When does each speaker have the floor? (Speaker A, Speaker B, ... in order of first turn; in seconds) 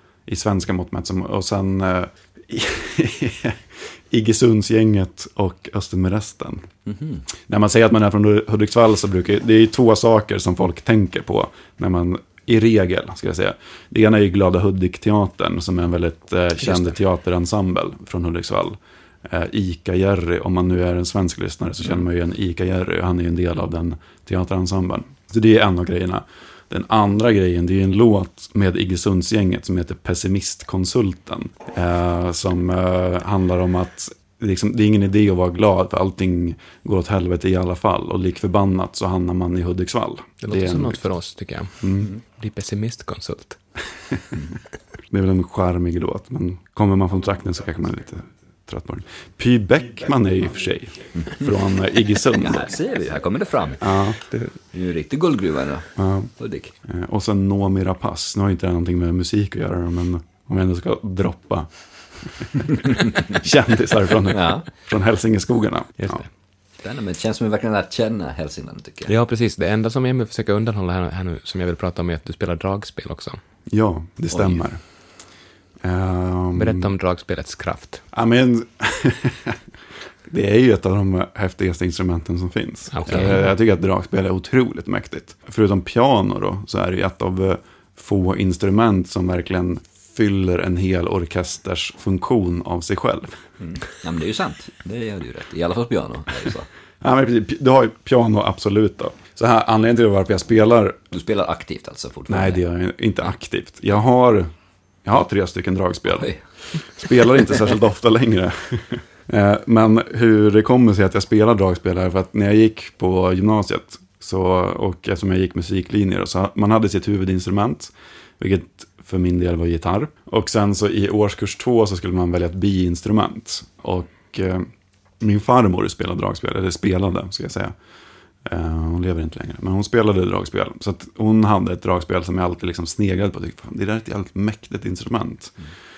Speaker A: 0.3-6.7, 7.5-41.0, 41.8-42.1, 45.1-52.7, 53.8-54.5, 56.0-56.3, 56.8-66.2, 73.7-75.2, 75.8-76.9, 78.1-79.6, 80.3-93.4, 97.0-101.0, 102.3-104.5, 105.0-124.7, 125.2-127.7, 128.4-135.6
Speaker B: 6.9-7.2, 51.3-51.5, 52.3-56.7, 64.3-64.7, 66.8-69.1, 74.3-74.6, 93.6-96.7, 101.1-102.6, 106.2-106.4
Speaker C: 40.4-43.6, 66.0-66.3, 69.1-73.4, 76.6-78.0, 82.9-83.5